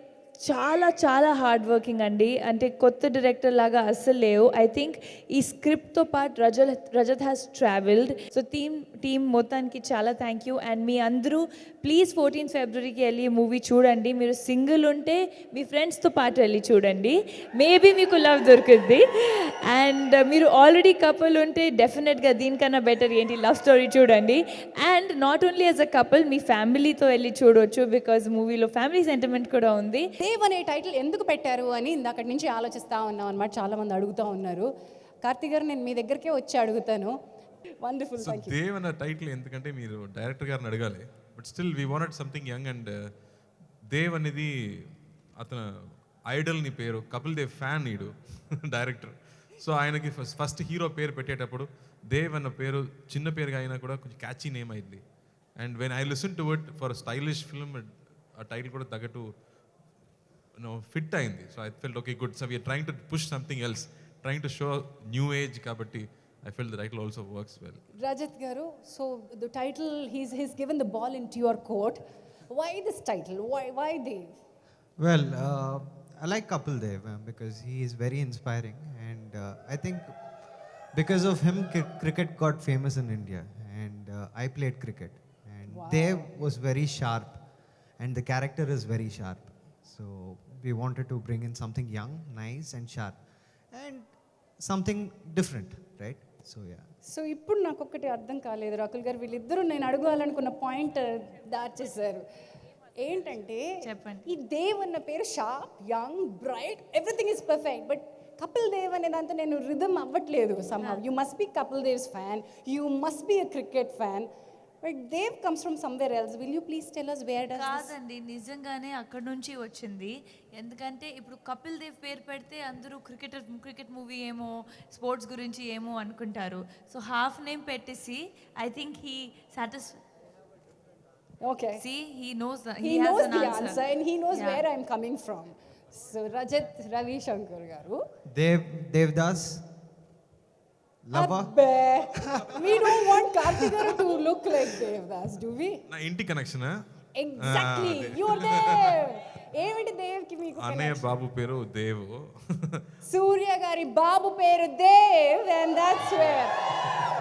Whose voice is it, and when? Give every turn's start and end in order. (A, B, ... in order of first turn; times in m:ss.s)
0:00.4-0:30.1 A
0:30.2-0:34.7 B
0:35.2-0:37.1 B
0:37.8-0:38.6 B
0:38.2-0:42.9 C
0:43.9-0:45.6 C
0:46.2-0:48.1 C
0:48.6-0:55.0 C
0:55.6-0:59.3 C
1:00.6-1:07.8 C
1:08.0-1:14.3 B
1:15.0-1:20.2 D
1:20.9-1:27.4 D
1:25.7-1:26.3 B
1:28.0-1:33.2 D
1:33.7-1:36.9 D
1:37.0-1:42.2 B
1:43.0-1:43.7 B
1:43.8-1:44.3 A
1:44.2-1:54.3 B
1:54.8-1:57.9 B
1:57.5-2:10.0 A
2:11.4-2:11.8 B
2:11.8-2:14.6 A
2:12.8-2:18.0 B
2:18.3-2:19.6 D
2:21.0-2:21.6 D
2:21.1-2:25.8 B
2:22.1-2:23.6 D
2:25.9-2:26.7 C
2:27.1-2:31.0 B
2:27.4-2:29.0 C
2:30.6-2:32.8 C
2:33.0-2:36.8 B
2:36.1-2:36.4 C